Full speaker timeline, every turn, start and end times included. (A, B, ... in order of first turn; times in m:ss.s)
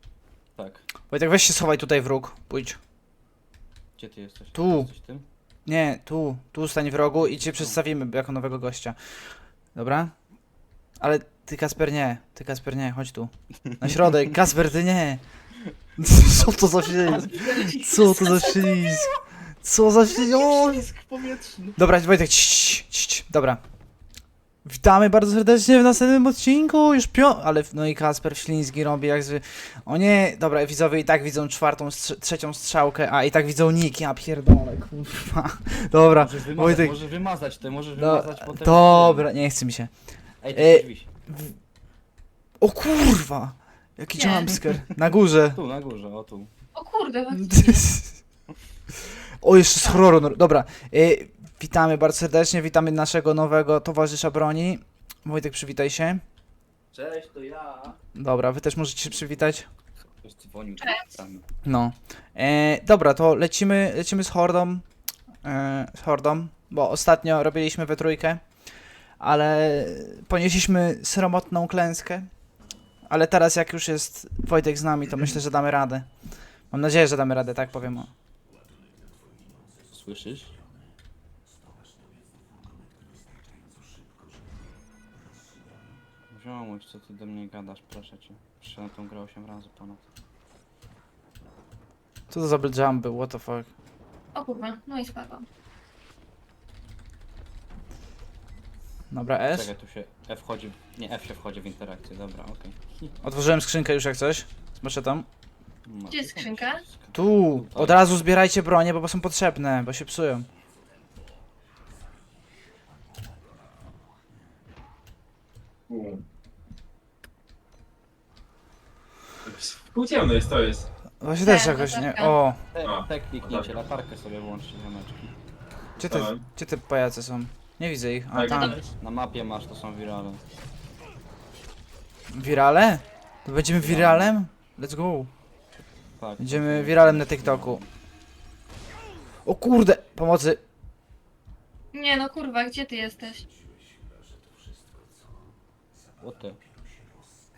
0:00.5-0:00.9 A
0:01.1-0:02.8 B
0:04.0-0:05.2 A
0:04.5-0:04.9 B
0:05.6-0:10.2 B
0:07.0-0:07.8 A
0:11.0-0:19.1 B
0:16.9-0:19.2 A
0:19.6-0:20.9 B
0:20.0-0:21.8 A
0:21.8-0:23.6 B
0:24.6-0:37.0 B
0:36.0-0:39.3 A
0:38.0-0:41.6 B
0:40.4-0:41.1 A
0:42.6-0:45.6 B
0:44.1-0:44.6 C
0:45.5-0:46.5 A
0:46.7-0:48.0 C
0:47.3-0:48.2 B
0:49.4-0:56.2 B
0:56.9-0:58.0 A
0:58.1-0:59.7 B
1:00.1-1:01.4 A
1:01.6-1:04.8 B
1:05.4-1:08.7 B
1:09.2-1:12.3 B
1:13.0-1:18.1 B
1:19.9-1:20.6 A
1:26.3-1:30.0 A
1:32.3-1:33.7 B
1:34.3-1:35.4 C
1:39.1-1:39.7 B
1:39.5-1:43.1 A
1:43.2-1:45.3 B
1:45.8-1:48.1 A
1:46.1-1:46.8 C
1:47.1-1:50.5 B
1:55.9-1:56.2 D
1:59.4-2:00.9 D
2:01.2-2:02.6 B
2:01.4-2:02.4 C
2:02.7-2:05.3 A
2:02.8-2:03.7 D
2:06.0-2:06.4 D
2:06.0-2:08.8 B
2:08.3-2:08.8 D
2:08.5-2:08.8 C
2:09.0-2:10.4 A
2:12.3-2:15.3 B
2:13.8-2:14.4 A
2:16.1-2:17.9 A
2:16.4-2:17.8 B
2:19.4-2:20.6 B
2:21.9-2:23.5 C
2:26.2-2:26.6 A